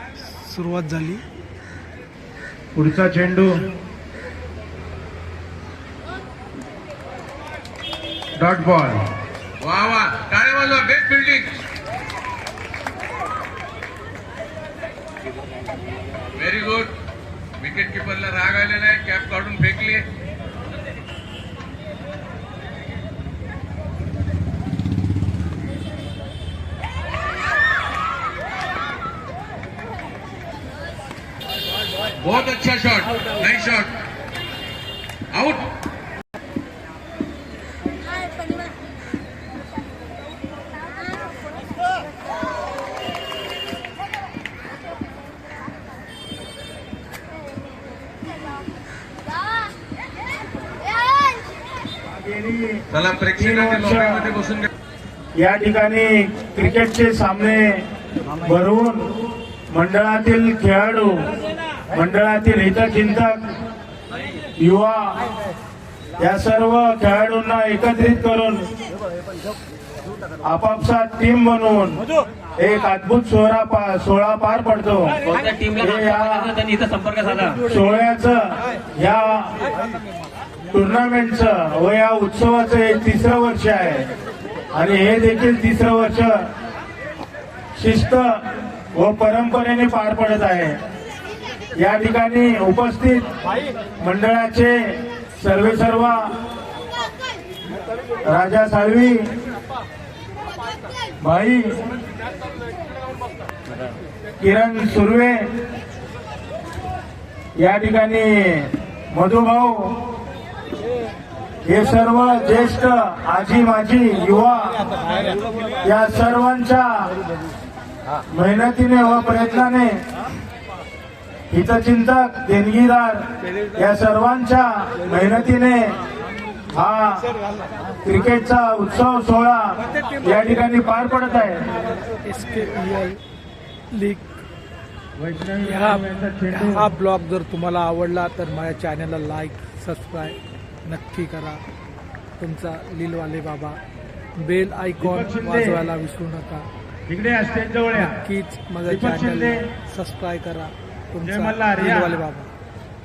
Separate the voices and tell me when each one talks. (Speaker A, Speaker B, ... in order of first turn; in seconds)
Speaker A: 0.2-1.2, 132.2-133.2, 133.9-134.3, 135.6-141.6, 142.4-143.8, 144.4-146.7, 147.9-152.5
Speaker B: 2.8-3.5, 8.4-8.9, 52.2-52.8, 53.4-54.2, 55.4-57.8, 58.4-59.0, 59.7-61.2, 61.9-63.4, 64.6-65.2, 66.2-68.6, 70.5-72.0, 72.6-75.2, 75.8-76.5, 77.6-79.6, 80.7-84.0, 84.7-86.3, 87.8-88.3, 89.0-90.8, 91.8-93.2, 94.0-96.3, 98.2-99.2, 101.2-101.7, 104.4-105.5, 107.6-110.0, 111.6-114.8, 115.8-117.1, 118.3-120.0, 121.5-123.2, 123.8-126.0, 126.7-127.3, 128.0-131.7, 135.2-136.8, 145.0-145.8, 147.1-148.2, 148.8-149.6, 151.2-152.2
Speaker C: 9.6-11.5, 16.4-16.9, 17.6-20.1, 32.2-33.9, 35.3-35.6, 52.9-54.7
Speaker D: 75.3-77.6